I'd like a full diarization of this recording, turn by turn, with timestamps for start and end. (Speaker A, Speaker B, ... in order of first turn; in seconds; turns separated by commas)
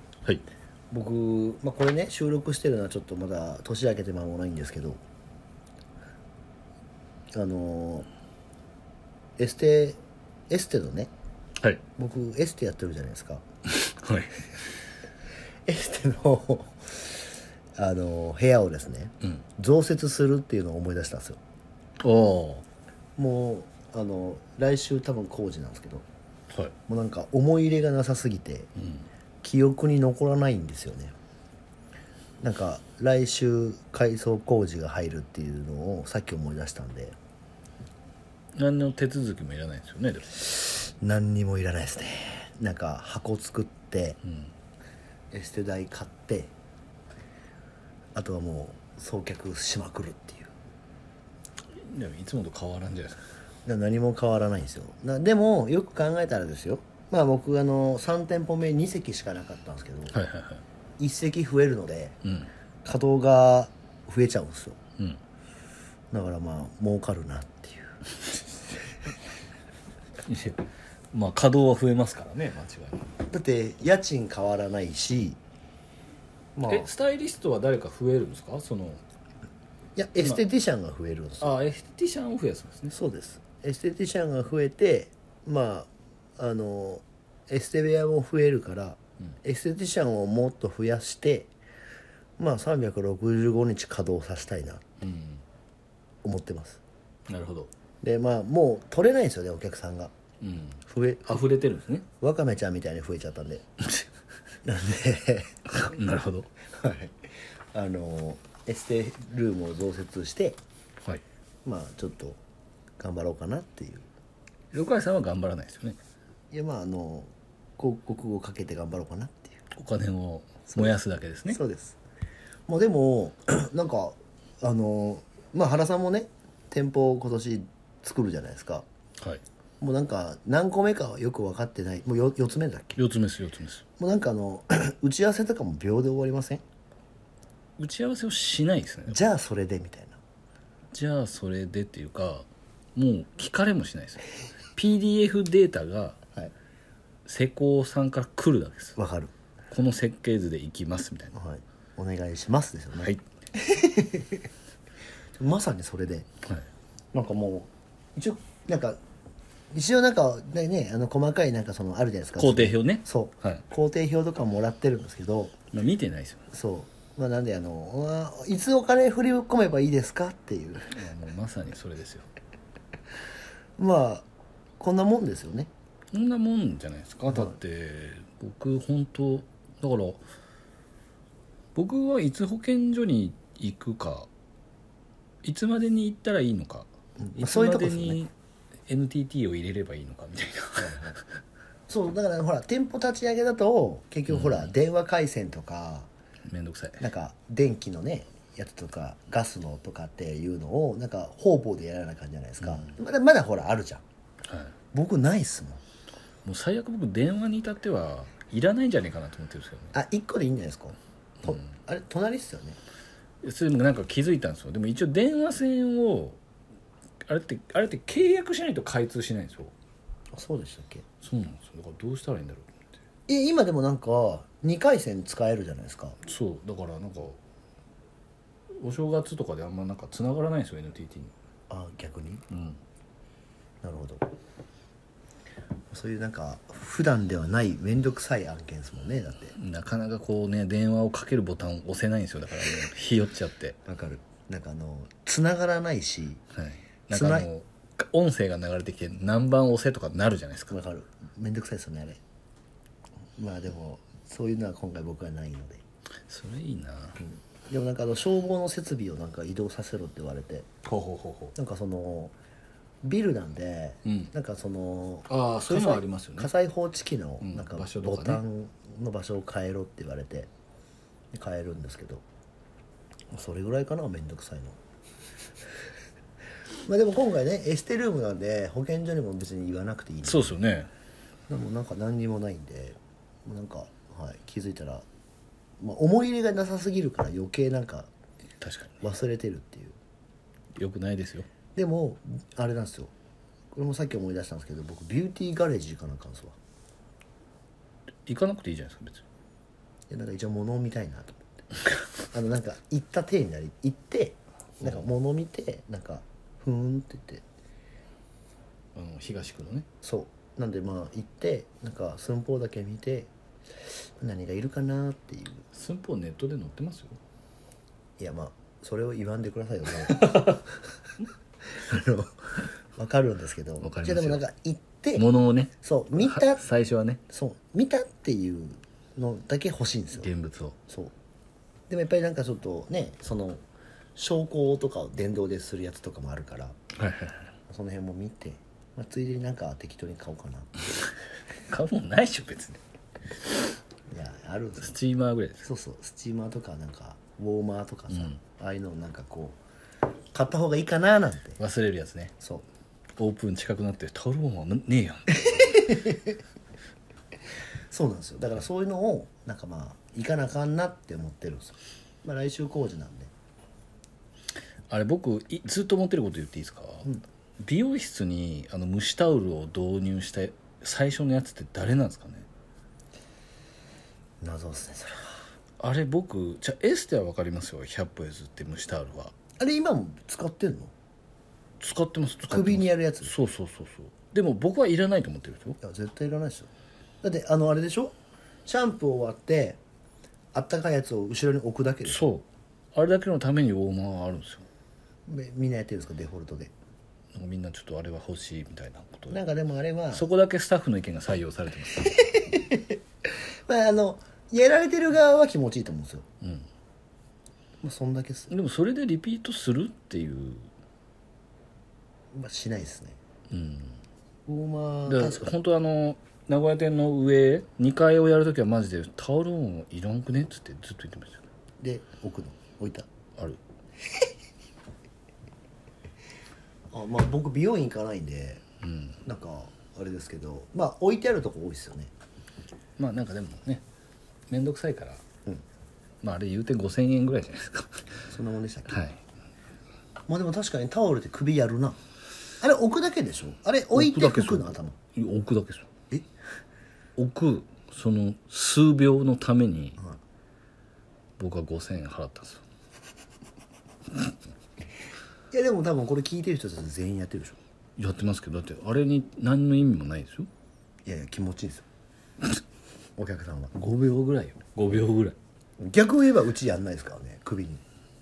Speaker A: 0.9-5.0, Speaker A: 7.3-8.1, Speaker A: 9.4-11.1, Speaker A: 12.0-13.4, Speaker B: 13.7-14.4, Speaker A: 15.7-17.2, Speaker A: 17.8-21.4, Speaker B: 22.0-22.6, Speaker A: 23.2-26.1, Speaker A: 26.9-28.7, Speaker B: 28.8-29.0, Speaker A: 29.4-31.1, Speaker A: 32.4-37.2, Speaker B: 38.6-40.6, Speaker A: 40.7-44.2, Speaker B: 44.2-44.5, Speaker A: 45.3-46.5, Speaker A: 48.1-50.5, Speaker B: 51.8-53.3, Speaker A: 53.6-60.2, Speaker B: 60.1-60.6, Speaker A: 61.0-62.2, Speaker B: 62.2-62.5, Speaker A: 62.9-64.8, Speaker A: 66.1-68.0, Speaker B: 70.3-73.1, Speaker A: 73.3-75.4, Speaker A: 76.6-76.9, Speaker B: 76.7-79.0, Speaker A: 80.0-81.5, Speaker B: 81.4-82.9, Speaker A: 82.9-91.5, Speaker A: 92.4-94.8, Speaker B: 95.0-95.4, Speaker A: 96.2-96.8, Speaker B: 97.3-97.7, Speaker A: 98.0-100.1, Speaker B: 100.4-102.1, Speaker A: 100.9-101.4, Speaker A: 102.2-103.7, Speaker A: 104.6-105.6, Speaker B: 105.7-106.5, Speaker A: 106.7-110.6, Speaker A: 111.7-112.4, Speaker A: 113.0-114.1, Speaker B: 114.7-116.0, Speaker A: 116.5-119.6, Speaker B: 119.7-121.6, Speaker A: 121.5-122.0, Speaker A: 122.7-128.9, Speaker A: 129.8-133.0, Speaker B: 133.0-133.8, Speaker A: 134.0-136.6, Speaker B: 137.8-139.2, Speaker A: 139.1-140.2, Speaker B: 140.9-144.2, Speaker B: 144.8-146.2, Speaker B: 147.3-149.0, Speaker A: 149.0-149.3, Speaker B: 149.7-151.3, Speaker A: 151.3-154.4, Speaker A: 155.4-156.3, Speaker A: 157.1-159.0, Speaker A: 159.7-165.6, Speaker B: 162.4-163.6, Speaker B: 165.7-166.4, Speaker A: 166.5-171.0, Speaker B: 170.9-172.3, Speaker A: 173.8-174.3, Speaker A: 174.8-175.7, Speaker B: 176.1-180.2, Speaker B: 181.8-184.3, Speaker B: 185.4-188.3, Speaker A: 187.2-188.2, Speaker B: 188.9-191.2, Speaker A: 190.8-191.2, Speaker A: 191.9-196.1, Speaker B: 194.3-194.7, Speaker B: 196.5-197.0, Speaker A: 197.0-204.0, Speaker B: 202.6-202.9, Speaker B: 204.5-204.7, Speaker A: 204.9-205.8, Speaker B: 206.4-209.9, Speaker A: 209.9-212.8, Speaker B: 213.4-216.4, Speaker B: 217.2-219.7, Speaker A: 220.3-221.0, Speaker B: 221.2-222.7, Speaker A: 223.3-226.2, Speaker B: 226.2-227.4, Speaker B: 228.8-231.3, Speaker A: 231.7-232.4, Speaker B: 232.5-232.8, Speaker A: 233.8-234.2, Speaker A: 235.9-239.6, Speaker B: 239.6-243.8, Speaker A: 243.8-246.4, Speaker B: 246.6-250.8, Speaker A: 247.1-247.5, Speaker A: 250.7-252.2, Speaker A: 253.4-255.8, Speaker B: 256.3-257.2, Speaker A: 257.2-260.7, Speaker B: 260.9-261.5, Speaker A: 261.6-262.3, Speaker A: 263.0-270.5, Speaker B: 264.1-264.3, Speaker B: 265.3-266.5, Speaker B: 267.4-268.4, Speaker A: 271.3-272.2, Speaker A: 273.3-274.8, Speaker A: 276.9-280.6, Speaker B: 280.2-280.9, Speaker A: 281.5-285.1, Speaker A: 285.8-288.1, Speaker B: 288.6-289.0, Speaker A: 289.0-290.0, Speaker B: 290.8-291.5, Speaker A: 291.8-293.1, Speaker A: 293.7-296.6, Speaker B: 298.3-299.2, Speaker A: 300.1-301.6, Speaker A: 302.2-307.4, Speaker B: 308.9-309.9, Speaker A: 310.0-313.3, Speaker A: 314.2-315.6, Speaker B: 315.7-317.2, Speaker A: 318.2-320.8, Speaker A: 321.7-325.3, Speaker B: 323.8-324.4, Speaker B: 325.1-327.2, Speaker A: 325.8-326.6, Speaker A: 327.3-330.3, Speaker B: 330.2-330.8, Speaker A: 331.9-333.6, Speaker A: 334.2-336.8, Speaker B: 337.0-337.5, Speaker A: 337.7-340.7, Speaker B: 341.7-342.8, Speaker A: 344.1-345.0, Speaker B: 344.8-345.7, Speaker A: 345.6-349.6, Speaker B: 348.1-348.4, Speaker A: 350.3-351.6, Speaker B: 351.6-352.3, Speaker A: 352.4-352.6, Speaker B: 353.2-356.0, Speaker A: 355.4-356.3, Speaker A: 357.9-363.3, Speaker B: 364.9-367.1, Speaker B: 367.6-372.5, Speaker A: 374.4-375.3, Speaker B: 375.8-379.3, Speaker A: 379.6-380.9, Speaker B: 381.8-385.8, Speaker A: 382.5-383.3, Speaker A: 385.8-386.7, Speaker A: 387.2-388.1, Speaker A: 388.7-389.8, Speaker A: 390.6-392.2, Speaker B: 392.1-394.7, Speaker A: 395.3-396.7, Speaker B: 397.3-399.4, Speaker A: 399.3-400.2, Speaker B: 400.1-402.2, Speaker A: 402.1-403.0, Speaker A: 403.7-406.3, Speaker B: 406.4-406.7, Speaker A: 407.8-408.5, Speaker B: 408.5-410.7, Speaker A: 412.3-413.2, Speaker B: 413.5-414.0, Speaker A: 414.5-415.5, Speaker B: 415.1-421.4, Speaker A: 421.8-423.1, Speaker A: 426.9-428.6, Speaker B: 428.8-429.2, Speaker A: 429.2-432.1, Speaker B: 433.0-433.8, Speaker B: 434.5-435.2, Speaker B: 436.2-438.1, Speaker A: 438.3-439.0, Speaker B: 438.9-439.2, Speaker A: 440.3-442.0, Speaker A: 442.6-445.0, Speaker B: 443.9-445.9, Speaker B: 447.2-450.0, Speaker B: 451.4-452.6, Speaker A: 455.5-457.6, Speaker B: 458.0-460.5, Speaker A: 461.1-461.9, Speaker A: 463.2-463.9, Speaker B: 463.8-465.4, Speaker A: 465.8-467.8